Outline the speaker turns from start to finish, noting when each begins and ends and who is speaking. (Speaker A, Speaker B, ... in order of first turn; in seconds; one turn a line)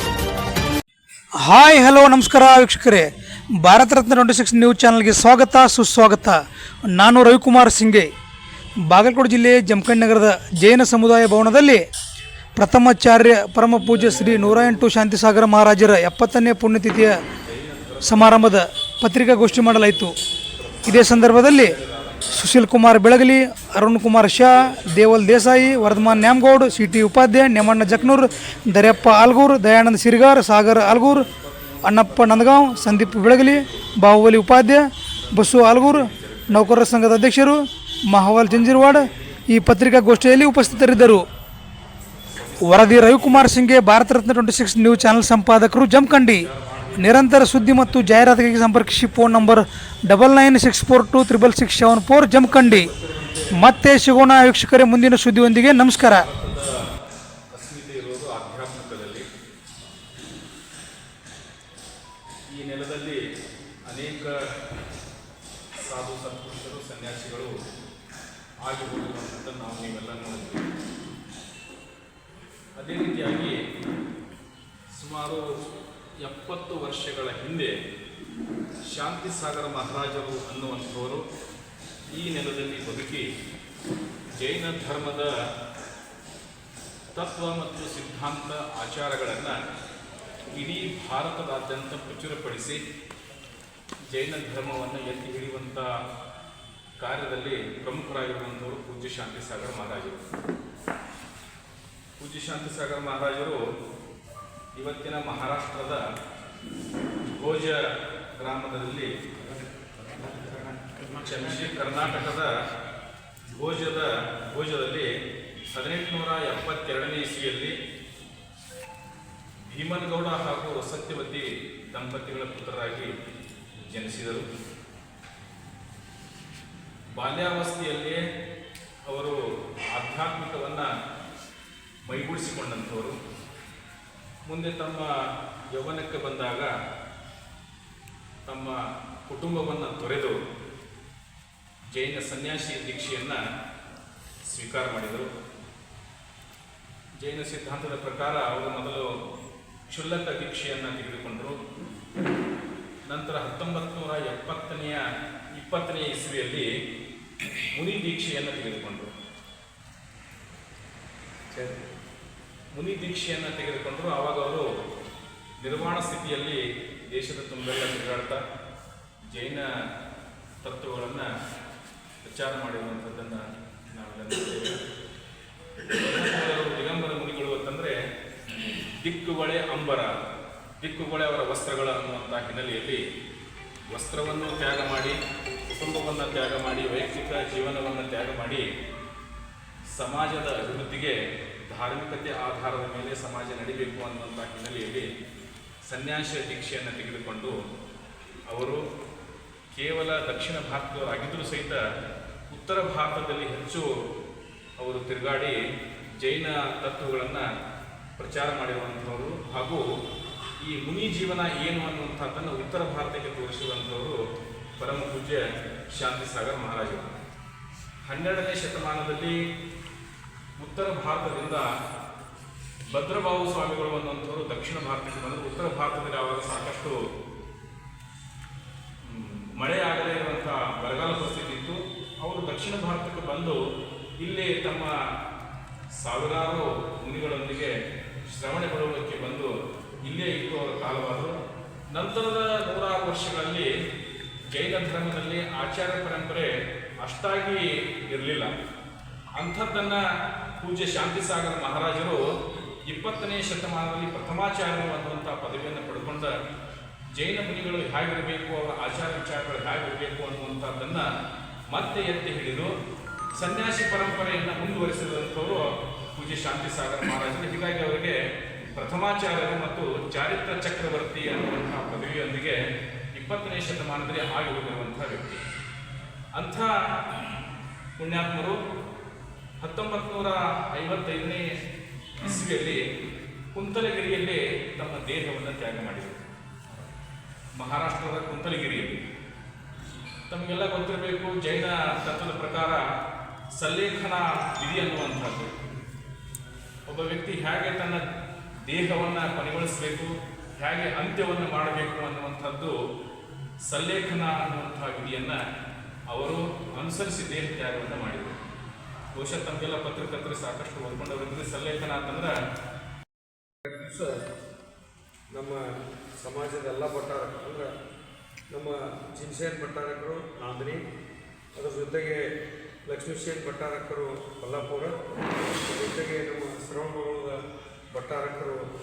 Speaker A: 1.4-3.1
Speaker A: 3.6-6.4
Speaker A: 6.9-8.1
Speaker A: 8.9-11.8
Speaker A: 12.6-17.2
Speaker B: 13.9-14.9
Speaker B: 17.4-18.6
Speaker A: 18.0-20.1
Speaker B: 19.4-19.9
Speaker B: 20.5-22.6
Speaker A: 20.9-21.8
Speaker A: 22.3-31.3
Speaker B: 24.4-26.6
Speaker B: 27.8-29.4
Speaker B: 30.7-34.0
Speaker A: 31.8-41.3
Speaker B: 35.2-37.0
Speaker B: 38.5-39.4
Speaker B: 40.1-41.3
Speaker B: 42.3-43.6
Speaker A: 42.6-52.9
Speaker B: 46.1-49.3
Speaker B: 52.4-53.6
Speaker A: 53.5-56.3
Speaker B: 56.1-56.7
Speaker B: 57.5-59.2
Speaker B: 62.5-63.2
Speaker B: 63.9-64.3
Speaker B: 65.8-67.6
Speaker B: 68.6-70.7
Speaker B: 72.8-73.6
Speaker B: 74.9-75.5
Speaker B: 76.2-77.8
Speaker B: 78.9-81.2
Speaker B: 82.1-83.3
Speaker B: 84.4-85.3
Speaker B: 87.1-89.5
Speaker B: 90.5-92.8
Speaker B: 94.1-95.9
Speaker B: 97.0-100.2
Speaker B: 102.2-103.6
Speaker B: 104.7-106.0
Speaker B: 107.3-107.8
Speaker B: 108.4-109.1
Speaker C: 110.2-111.0
Speaker B: 111.1-112.5
Speaker B: 113.5-115.1
Speaker B: 115.7-117.8
Speaker B: 119.7-123.1
Speaker B: 123.8-124.5
Speaker B: 127.1-128.2
Speaker B: 129.1-129.4
Speaker B: 129.9-130.9
Speaker B: 132.0-133.2
Speaker B: 134.4-135.1
Speaker B: 135.7-136.7
Speaker B: 138.4-140.4
Speaker B: 141.9-143.4
Speaker B: 144.5-145.3
Speaker B: 147.2-149.1
Speaker B: 149.9-151.6
Speaker B: 153.1-155.0
Speaker B: 155.6-156.7
Speaker B: 157.7-159.1
Speaker C: 161.5-161.8
Speaker B: 162.7-164.7
Speaker B: 165.6-168.4
Speaker B: 169.3-169.7
Speaker B: 170.6-171.3
Speaker B: 172.2-174.8
Speaker B: 176.0-177.9
Speaker B: 179.0-180.1
Speaker B: 180.8-183.0
Speaker B: 183.9-185.2
Speaker B: 185.7-188.7
Speaker B: 189.9-191.2
Speaker B: 191.7-195.1
Speaker B: 195.8-197.6
Speaker B: 198.5-198.8
Speaker B: 199.7-201.8
Speaker B: 202.5-203.9
Speaker B: 204.8-205.6
Speaker B: 206.2-207.4
Speaker B: 208.2-209.8
Speaker B: 210.6-214.2
Speaker B: 214.8-217.2
Speaker B: 218.1-219.4
Speaker B: 220.6-221.6
Speaker B: 222.9-227.0
Speaker B: 229.0-233.6
Speaker B: 234.2-234.9
Speaker B: 236.0-237.7
Speaker B: 238.3-239.5
Speaker B: 240.0-241.4
Speaker B: 241.9-243.7
Speaker B: 244.5-248.5
Speaker B: 249.4-250.0
Speaker B: 250.6-252.3
Speaker B: 252.9-256.3
Speaker B: 257.1-261.1
Speaker B: 261.7-262.7
Speaker B: 263.3-272.6
Speaker B: 273.1-275.4
Speaker B: 276.4-276.7
Speaker B: 278.0-278.6
Speaker B: 279.6-281.5
Speaker B: 282.2-282.8
Speaker B: 283.5-286.2
Speaker B: 287.6-289.0
Speaker B: 290.3-292.8
Speaker B: 293.6-295.5
Speaker B: 296.9-298.0
Speaker B: 298.7-302.8
Speaker B: 303.7-305.4
Speaker B: 306.1-308.4
Speaker B: 309.1-312.4
Speaker C: 313.6-314.2
Speaker C: 315.3-317.7
Speaker C: 318.5-320.9
Speaker C: 321.5-322.3
Speaker C: 322.9-328.7